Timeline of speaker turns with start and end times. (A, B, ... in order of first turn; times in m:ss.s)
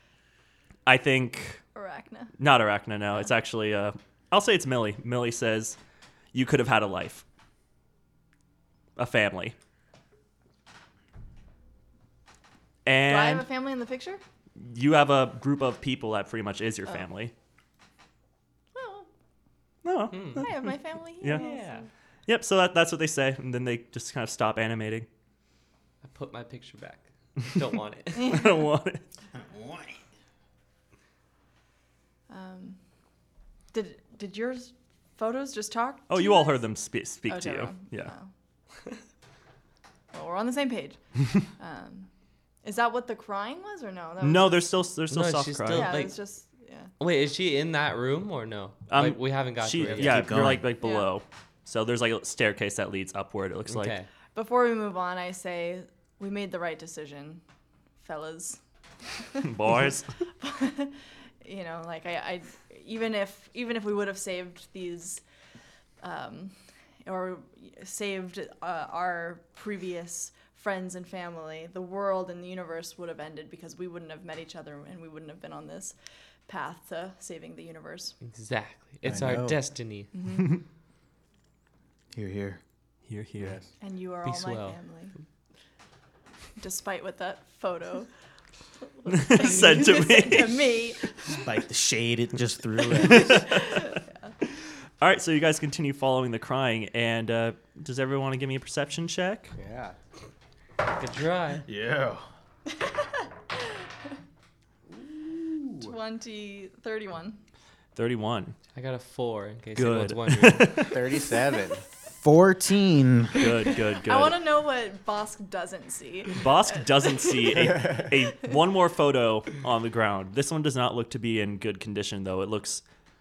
0:00.8-0:01.6 A
0:01.7-0:02.3 B
0:02.4-0:05.8 A
0:06.3-0:07.2 A
0:09.0-0:09.5 A
0:12.8-0:13.5 A
0:13.0-0:14.2 B
0:14.6-0:17.3 A
0:18.7-0:19.1 B
0:19.8-0:20.7 A
0:20.1-0:20.5 C
0:20.4-0:21.9 B
0:21.3-0:21.9 C
0:22.3-0:25.1 A
0:26.0-0:28.3 C
0:28.1-0:28.7 B
0:28.2-0:29.0 A
0:29.3-0:30.0 D
0:32.3-0:32.8 B
0:33.7-0:36.6 B
0:36.1-0:38.1 A
0:37.3-0:38.3 B
0:40.1-0:42.1 B
0:42.6-0:44.7 B
0:44.2-0:46.0 A
0:45.1-0:46.2 C
0:45.7-0:46.9 B
0:47.0-0:50.4 C
0:48.9-0:53.9 A
0:49.9-0:50.6 D
0:50.8-0:51.1 B
0:53.7-0:54.1 C
0:54.3-0:57.4 B
0:58.0-0:58.6 B
0:59.2-0:59.5 B
0:59.4-1:00.1 A
1:00.4-1:05.2 B
1:06.0-1:16.0 B
1:16.5-1:18.2 B
1:18.2-1:20.1 C
1:19.0-1:19.6 E
1:20.1-1:20.6 B
1:22.1-1:22.6 D
1:23.1-1:23.6 A
1:23.4-1:23.7 E
1:23.8-1:25.1 B
1:24.2-1:24.8 C
1:26.6-1:28.1 B
1:28.8-1:31.4 B
1:29.1-1:30.6 A
1:31.4-1:33.4 D
1:32.9-1:34.0 A
1:33.1-1:34.3 B
1:34.5-1:39.5 A
1:39.6-1:40.0 E
1:40.8-1:41.6 C
1:41.7-1:42.2 D
1:42.7-1:43.8 B
1:45.0-1:45.9 D
1:45.8-1:47.4 B
1:48.0-1:48.6 A
1:48.7-1:50.9 C
1:49.8-1:51.0 A
1:50.8-1:51.8 E
1:52.1-1:53.4 D
1:53.4-1:54.4 A
1:54.0-1:57.7 B
1:56.3-2:02.8 A
1:57.5-1:58.1 E